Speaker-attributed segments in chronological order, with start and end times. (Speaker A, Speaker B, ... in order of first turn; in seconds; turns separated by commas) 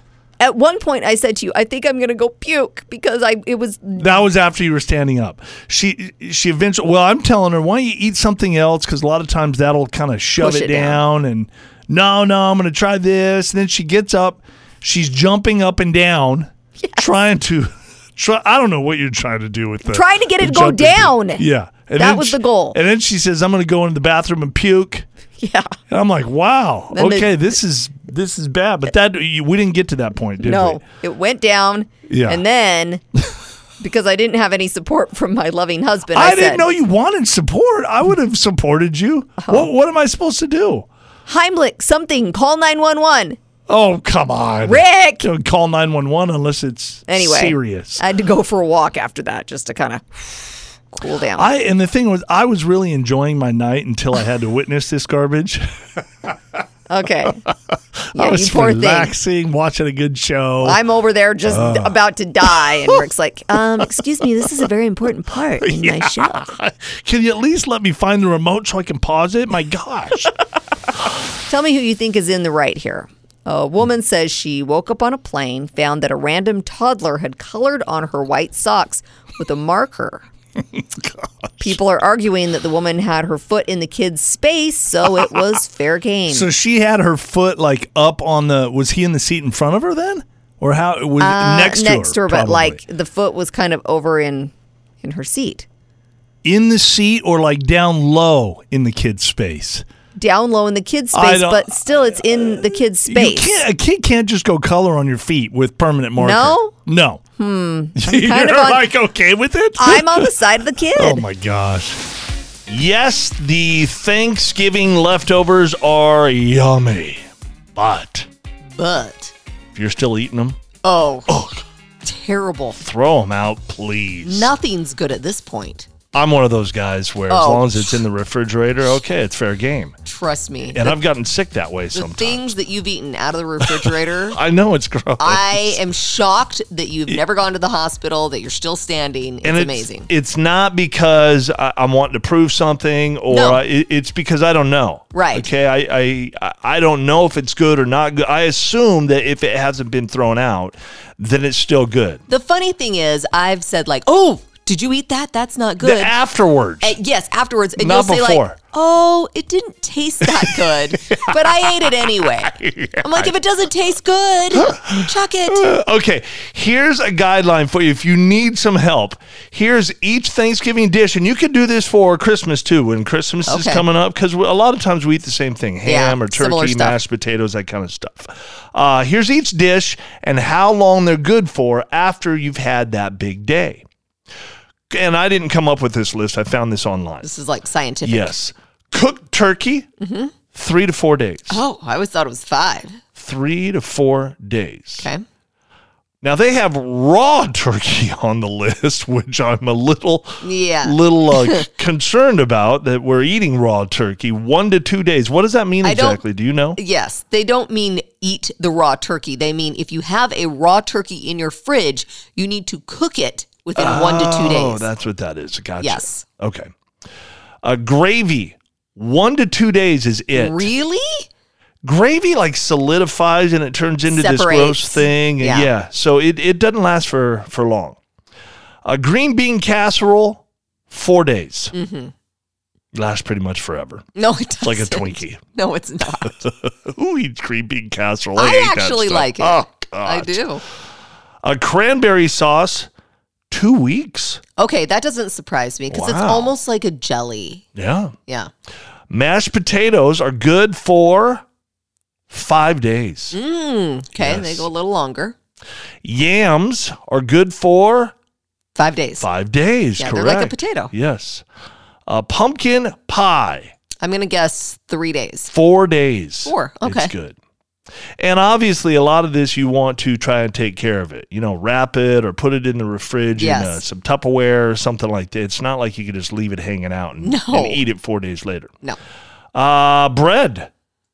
Speaker A: 0.4-4.1, Speaker B: 4.0-25.1, Speaker A: 10.4-11.0, Speaker A: 16.8-17.1, Speaker A: 19.9-21.4, Speaker A: 21.9-22.8, Speaker A: 25.4-25.7, Speaker B: 25.9-30.8, Speaker A: 26.9-27.5, Speaker A: 30.4-33.0, Speaker B: 32.1-32.4, Speaker A: 33.8-36.7, Speaker B: 36.1-40.9, Speaker A: 39.4-39.7, Speaker A: 41.3-43.4, Speaker B: 43.7-48.0, Speaker A: 44.7-45.3, Speaker A: 47.1-51.5, Speaker B: 51.4-55.7, Speaker A: 56.9-57.5, Speaker B: 58.0-60.8, Speaker A: 58.1-59.1, Speaker A: 60.6-66.5, Speaker B: 61.5-62.0, Speaker B: 62.6-63.0, Speaker B: 63.8-64.5, Speaker B: 65.6-70.3, Speaker A: 71.5-80.3, Speaker B: 80.7-81.8, Speaker A: 81.6-86.5, Speaker B: 86.3-92.8, Speaker A: 91.2-94.5, Speaker A: 95.0-95.7, Speaker B: 96.4-99.8, Speaker A: 100.2-103.5, Speaker B: 101.1-107.2, Speaker A: 106.2-106.8, Speaker A: 107.4-108.8, Speaker B: 108.0-110.3, Speaker A: 109.8-111.2, Speaker B: 111.0-112.0, Speaker B: 112.7-118.3, Speaker C: 118.8-119.3, Speaker B: 119.7-120.6, Speaker C: 120.9-121.2, Speaker B: 121.3-121.7, Speaker C: 122.1-122.5, Speaker A: 122.5-122.8, Speaker B: 122.8-124.5, Speaker C: 124.3-125.9, Speaker B: 126.1-130.0, Speaker A: 127.3-127.6, Speaker C: 130.1-130.8, Speaker B: 130.7-132.6, Speaker C: 131.9-134.3, Speaker A: 132.0-132.5, Speaker A: 133.6-134.3, Speaker B: 133.6-135.9, Speaker C: 135.2-140.0, Speaker A: 135.8-136.1, Speaker A: 139.4-140.1, Speaker B: 139.4-152.2, Speaker C: 152.3-156.1, Speaker A: 155.7-156.0, Speaker B: 155.8-157.0, Speaker C: 156.8-160.9, Speaker A: 157.7-158.4, Speaker B: 157.8-158.6, Speaker A: 159.8-162.5, Speaker B: 160.2-163.3, Speaker C: 163.1-164.6, Speaker A: 164.5-165.5, Speaker B: 164.5-183.8, Speaker C: 165.2-165.5, Speaker C: 173.5-173.8, Speaker C: 175.9-176.9, Speaker A: 175.9-176.2, Speaker B: 184.9-187.4, Speaker C: 187.2-188.2, Speaker B: 188.0-189.9, Speaker C: 190.0-190.3, Speaker B: 190.5-191.6, Speaker C: 191.5-193.0, Speaker B: 193.2-195.1, Speaker B: 196.2-206.8, Speaker C: 200.4-200.9, Speaker C: 205.9-206.1, Speaker A: 205.9-206.2, Speaker C: 206.8-214.7, Speaker A: 213.5-214.8, Speaker B: 213.8-216.7, Speaker C: 215.9-216.2, Speaker B: 217.6-220.7, Speaker A: 220.5-220.7, Speaker C: 220.5-221.0, Speaker B: 221.8-228.0, Speaker A: 224.1-225.6, Speaker B: 228.8-231.7, Speaker C: 231.8-232.1, Speaker B: 232.9-235.4, Speaker C: 234.2-236.3, Speaker B: 236.1-240.6, Speaker C: 238.4-239.5, Speaker C: 240.1-240.6, Speaker B: 241.4-242.9, Speaker B: 243.5-244.4, Speaker C: 244.6-247.6, Speaker B: 245.9-246.6, Speaker B: 247.8-248.2, Speaker B: 249.1-251.4, Speaker B: 252.3-253.4, Speaker C: 253.4-255.3, Speaker B: 254.2-254.7, Speaker B: 256.0-258.1, Speaker C: 258.8-259.2, Speaker B: 259.2-261.4, Speaker A: 260.0-260.9, Speaker C: 260.1-260.8, Speaker B: 262.1-263.7, Speaker C: 264.0-265.5, Speaker B: 265.5-267.4, Speaker C: 266.5-267.1, Speaker B: 268.2-278.8, Speaker C: 273.4-273.8, Speaker A: 273.4-273.7, Speaker C: 277.2-277.8, Speaker B: 279.5-280.7